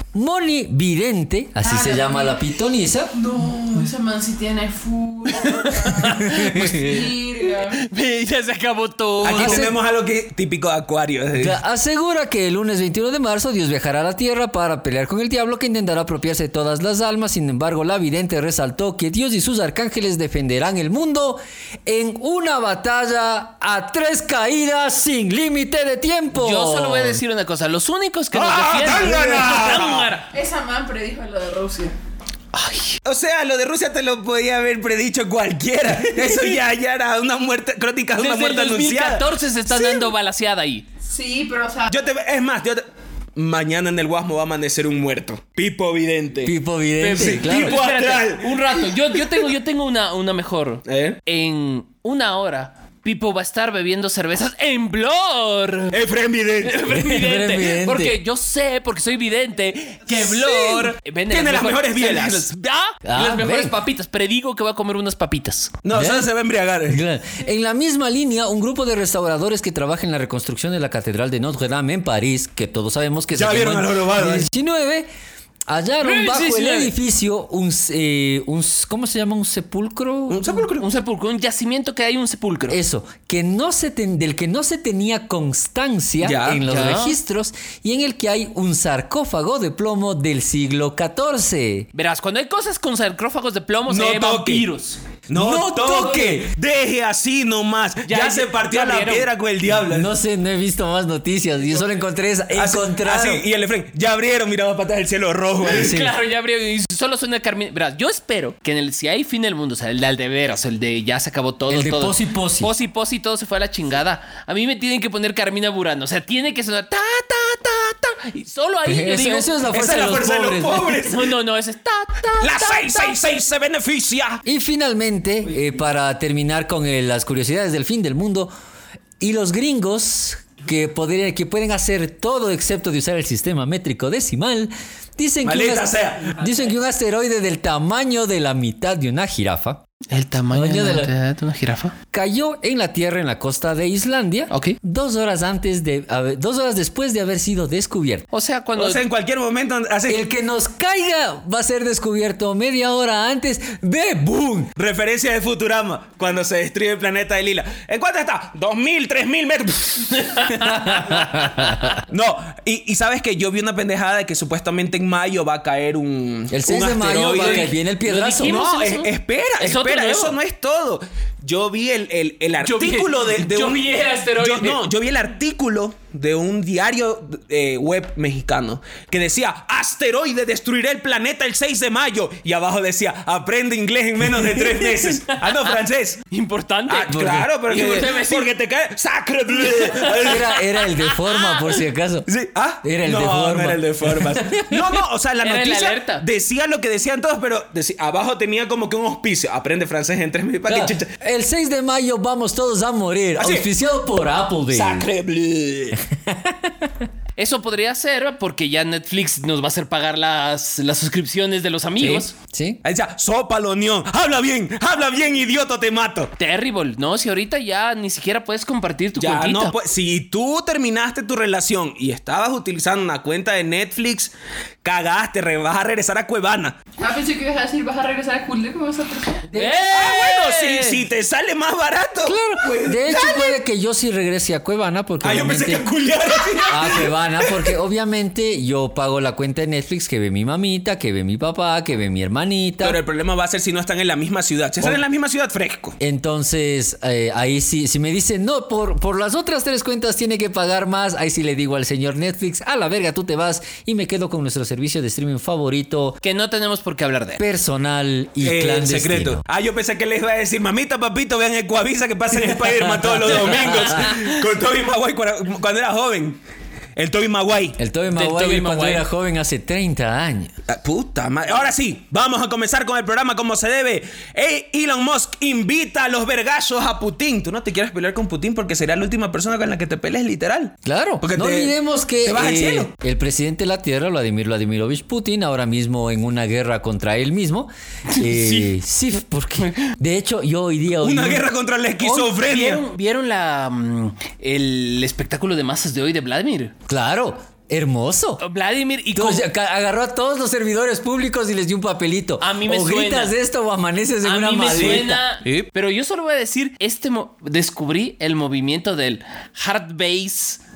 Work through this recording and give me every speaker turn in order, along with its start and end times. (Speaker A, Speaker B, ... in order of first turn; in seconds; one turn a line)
Speaker A: 0.1-3.1
Speaker B: 1.6-2.4
Speaker B: 3.1-7.8
Speaker C: 5.4-6.8
Speaker A: 6.0-7.1
Speaker C: 7.6-9.7
Speaker D: 9.2-11.6
Speaker A: 9.3-9.8
Speaker A: 11.4-27.2
Speaker C: 26.3-30.3
Speaker D: 28.3-30.1
Speaker B: 30.3-31.9
Speaker C: 32.5-33.0
Speaker D: 33.0-40.0
Speaker C: 38.1-40.8
Speaker B: 41.0-42.0
Speaker D: 41.9-42.8
Speaker D: 43.4-46.5
Speaker A: 46.4-47.8
Speaker C: 47.0-55.9
Speaker D: 47.1-49.5
Speaker D: 50.9-51.2
Speaker D: 55.9-56.8
Speaker C: 56.6-65.8
Speaker A: 56.9-58.2
Speaker D: 60.1-62.5
Speaker A: 63.0-63.7
Speaker D: 65.8-67.0
Speaker A: 65.9-66.3
Speaker A: 66.9-75.1
Speaker D: 73.3-74.5
Speaker A: 75.7-80.7
Speaker C: 76.0-76.9
Speaker D: 80.3-80.9
Speaker C: 80.8-82.8
Speaker A: 82.7-91.9
Speaker D: 86.2-86.6
Speaker C: 86.7-87.2
Speaker C: 91.9-95.0
Speaker D: 93.9-94.7
Speaker D: 95.3-100.1
Speaker A: 95.3-96.5
Speaker C: 98.0-99.3
Speaker A: 99.9-103.4
Speaker D: 102.5-106.0
Speaker C: 105.6-119.5
Speaker A: 105.7-106.1
Speaker A: 111.7-112.7
Speaker A: 118.8-121.0
Speaker D: 119.7-121.3
Speaker C: 121.0-123.1
Speaker D: 122.4-124.4
Speaker A: 124.4-128.5
Speaker A: 129.2-139.8
Speaker D: 135.4-136.4
Speaker C: 140.1-141.9
Speaker A: 140.5-141.1
Speaker A: 142.1-148.3
Speaker C: 144.5-144.8
Speaker C: 148.3-149.0
Speaker D: 148.8-150.2
Speaker A: 150.1-154.7
Speaker D: 154.8-160.7
Speaker C: 160.1-161.9
Speaker A: 160.9-161.9
Speaker D: 162.1-167.7
Speaker A: 166.5-168.6
Speaker C: 167.3-170.3
Speaker D: 168.4-186.2
Speaker C: 172.6-174.8
Speaker C: 185.2-185.7
Speaker C: 186.3-188.5
Speaker D: 186.9-190.5
Speaker A: 187.1-187.5
Speaker C: 189.6-191.8
Speaker A: 190.2-192.3
Speaker D: 192.3-201.1
Speaker A: 192.8-195.0
Speaker C: 195.4-196.2
Speaker A: 200.7-205.1
Speaker D: 203.4-203.7
Speaker D: 204.7-206.0
Speaker A: 206.1-207.0
Speaker C: 207.4-212.3
Speaker A: 212.3-212.8
Speaker D: 212.8-216.3
Speaker C: 216.4-219.7
Speaker D: 219.2-224.3
Speaker D: 224.8-226.8
Speaker B: 227.0-229.5
Speaker A: 229.5-229.8
Speaker C: 229.5-231.0
Speaker D: 229.9-233.6
Speaker A: 232.2-235.8
Speaker D: 235.2-237.7
Speaker A: 236.7-243.0
Speaker D: 242.8-245.9
Speaker A: 246.0-256.2
Speaker C: 256.2-257.4
Speaker A: 257.4-259.4
Speaker D: 258.4-266.4
Speaker A: 262.3-264.2
Speaker C: 263.4-264.3
Speaker D: 266.9-267.8
Speaker A: 267.8-270.5
Speaker C: 268.1-269.0
Speaker D: 270.7-282.9
Speaker A: 280.8-291.4
Speaker C: 288.1-288.7
Speaker C: 289.6-289.9
Speaker D: 291.0-292.8
Speaker C: 292.0-296.7
Speaker A: 296.9-298.4
Speaker C: 298.4-299.4
Speaker A: 299.1-305.2
Speaker C: 302.4-303.3
Speaker C: 304.2-310.6
Speaker D: 304.7-305.7